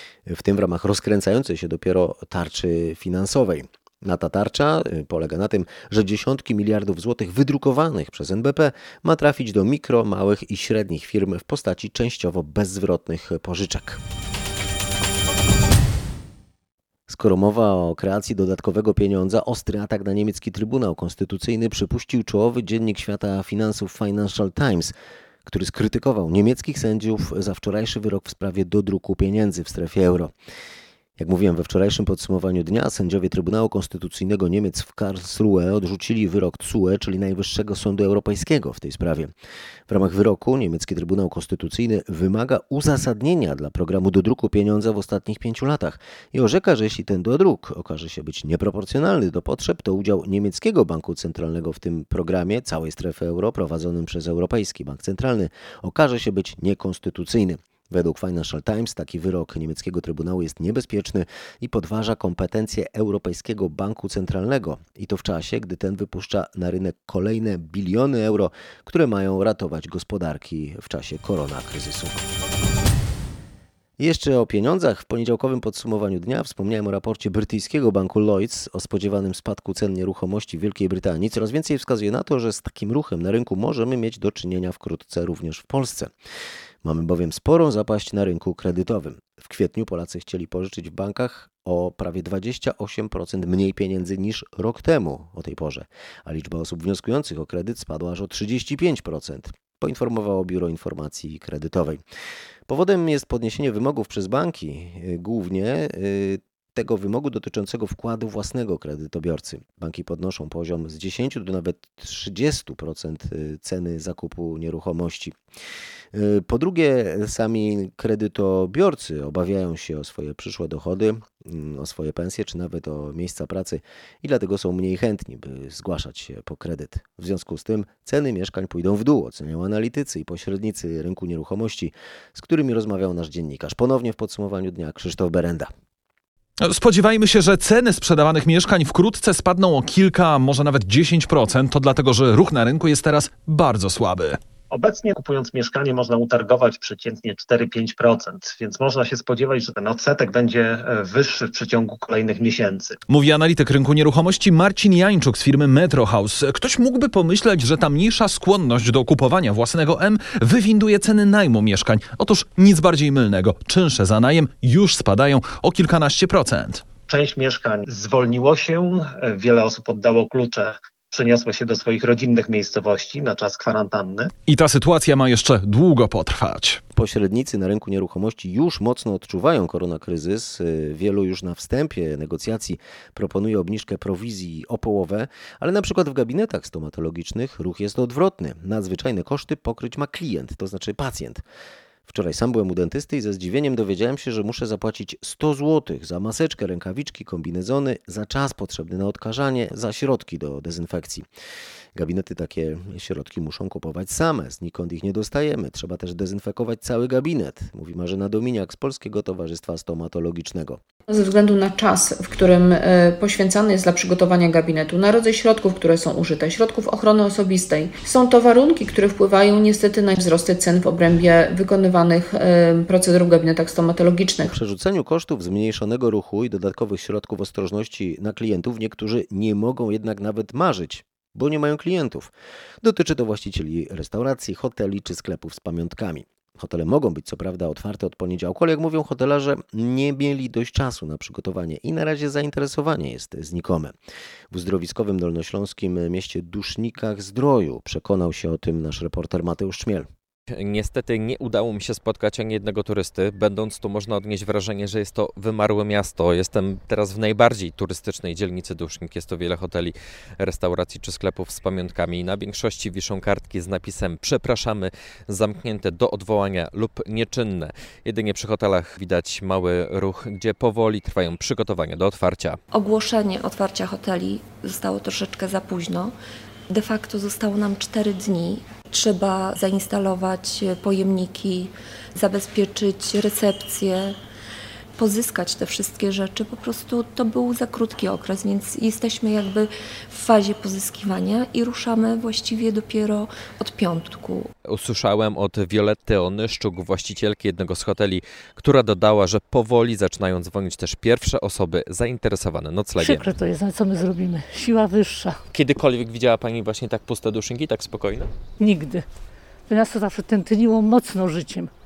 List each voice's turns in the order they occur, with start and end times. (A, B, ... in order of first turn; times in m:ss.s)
0:00.2-0:14.0 A
0:17.1-0:24.9 A
0:25.4-0:30.3 A
0:31.2-0:39.3 A
0:39.9-1:12.2 A
1:14.0-1:26.1 A
1:26.8-1:42.0 A
1:42.7-1:55.4 A
1:56.1-2:15.7 A
2:16.6-2:24.4 B
2:24.7-2:33.0 C
2:33.1-2:46.8 B
2:47.1-2:54.3 C
2:54.5-2:56.8 B
2:56.9-3:11.4 A
3:12.1-3:21.3 A
3:21.9-3:30.8 A
3:31.1-3:44.5 D
3:44.4-4:04.0 A
4:04.5-4:10.1 A
4:10.5-4:32.6 E
4:32.7-4:36.1 F
4:36.7-4:44.2 F
4:45.0-4:54.5 F
4:54.7-5:03.3 E
5:03.0-5:05.3 G
5:05.5-5:08.3 E
5:08.6-5:09.0 G
5:09.7-5:11.7 G